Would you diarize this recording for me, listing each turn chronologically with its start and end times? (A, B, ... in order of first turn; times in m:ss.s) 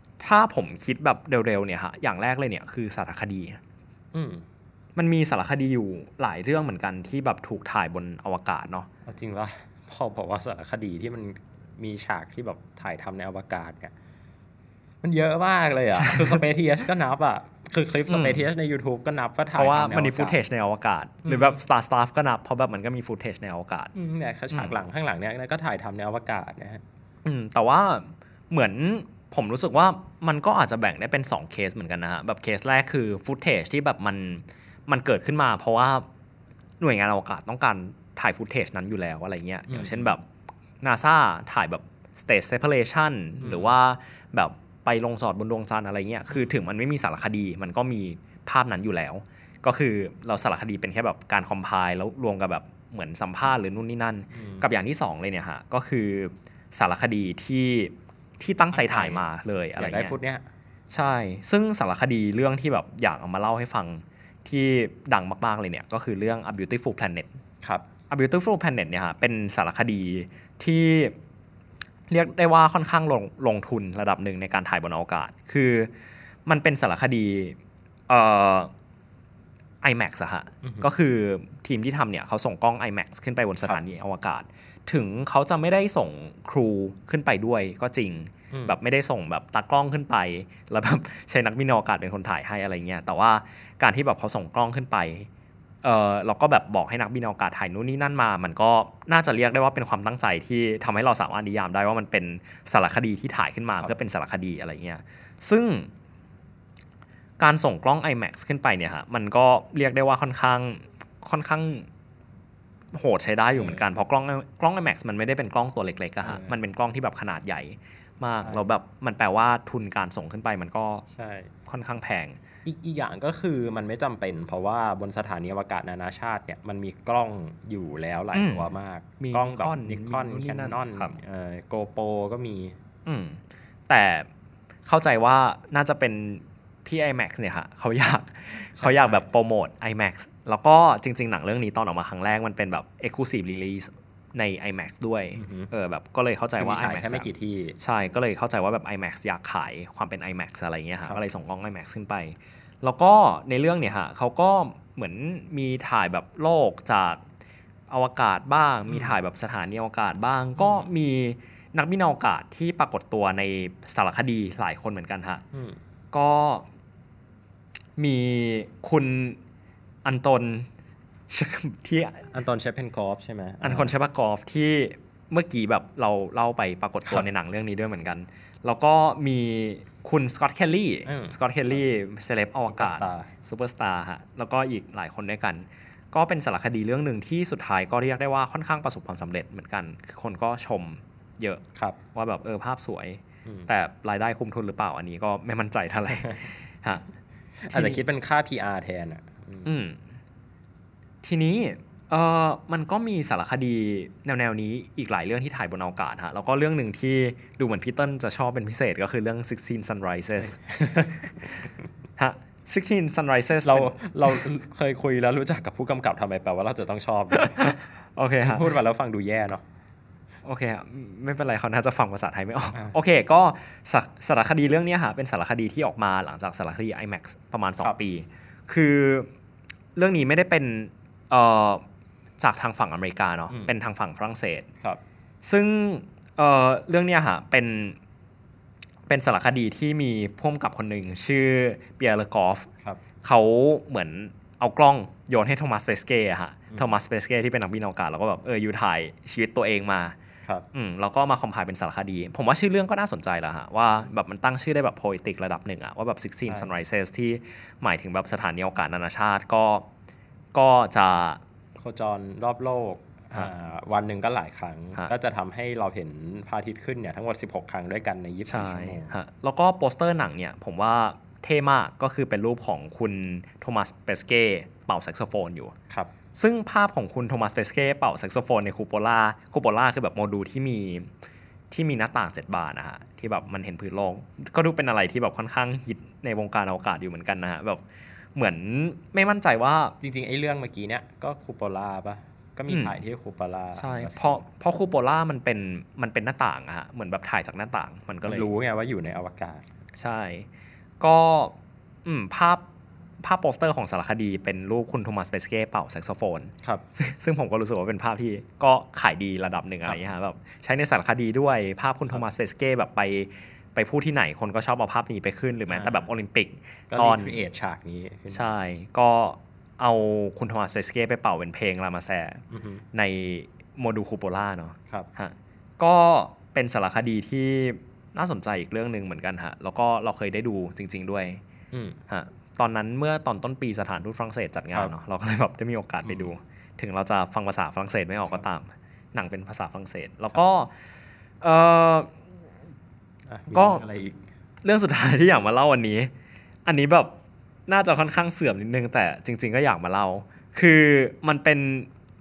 0:00.2-0:03.6 A
0:04.1-0:04.4 B
0:05.0-0:08.9 A
0:09.1-0:13.9 B
0:15.0-0:20.4 B
0:16.0-0:16.4 A
0:18.1-0:18.4 A
0:19.5-0:23.9 A
0:21.2-0:21.6 B
0:23.9-0:26.8 B
0:24.5-0:24.8 A
0:27.2-0:36.0 A
0:36.8-0:40.2 A
0:39.7-0:40.1 B
0:40.8-1:00.1 A
0:43.4-0:43.7 B
0:54.3-0:54.7 B
0:58.7-0:59.2 B
0:59.8-1:00.4 B
1:00.9-1:07.3 A
1:08.1-1:11.2 A
1:12.1-1:15.9 A
1:16.4-1:17.6 A
1:18.1-1:18.7 A
1:19.8-1:35.3 A
1:20.6-1:20.9 B
1:28.5-1:28.8 B
1:35.8-1:45.9 A
1:47.4-1:51.9 A
1:52.9-2:01.0 A
1:53.6-1:53.8 B
1:56.2-1:56.6 B
2:01.1-2:01.5 B
2:01.7-2:02.4 A
2:02.6-2:12.7 B
2:08.3-2:11.1 A
2:13.0-2:14.3 A
2:14.8-2:37.2 A
2:18.8-2:19.3 B
2:25.3-2:25.7 B
2:26.6-2:27.8 B
2:37.9-2:45.4 A
2:38.9-2:39.1 B
2:40.6-2:40.8 B
2:45.5-2:45.8 B
2:46.1-2:46.6 A
2:48.0-2:49.4 A
2:50.0-2:50.7 A
2:51.3-2:52.3 A
2:52.3-2:53.9 B
2:53.6-3:17.0 A
3:01.0-3:01.4 B
3:02.7-3:03.3 B
3:17.6-3:19.7 B
3:17.7-3:18.0 A
3:19.6-3:20.0 A
3:21.2-3:30.6 A
3:30.4-3:31.7 B
3:32.2-3:34.4 A
3:33.6-3:37.7 B
3:37.3-3:38.7 A
3:38.4-3:39.6 B
3:40.4-3:49.3 A
3:50.0-3:51.8 A
3:52.4-3:54.7 A
3:55.4-3:58.0 A
3:59.1-4:02.7 A
4:03.2-4:10.2 A
4:10.7-4:19.9 A
4:20.5-4:21.4 A
4:21.8-4:29.1 B
4:28.4-4:35.7 A
4:36.3-4:41.1 A
4:41.7-4:47.8 A
4:48.3-4:50.0 A
4:50.0-4:54.4 B
4:52.7-4:53.0 A
4:53.7-4:58.5 A
4:58.2-4:59.7 B
5:00.0-5:00.5 A
5:01.0-5:02.7 A
5:03.2-5:17.4 A
5:15.7-5:16.1 B
5:16.9-5:18.5 B
5:18.3-5:22.4 A
5:22.5-5:22.8 B
5:22.9-5:31.4 A
5:31.7-5:32.0 B
5:32.1-5:40.7 A
5:36.0-5:36.3 B
5:41.4-5:42.1 A
5:43.3-5:44.2 B
5:43.5-5:43.8 A
5:44.6-5:46.1 A
5:46.6-5:51.9 A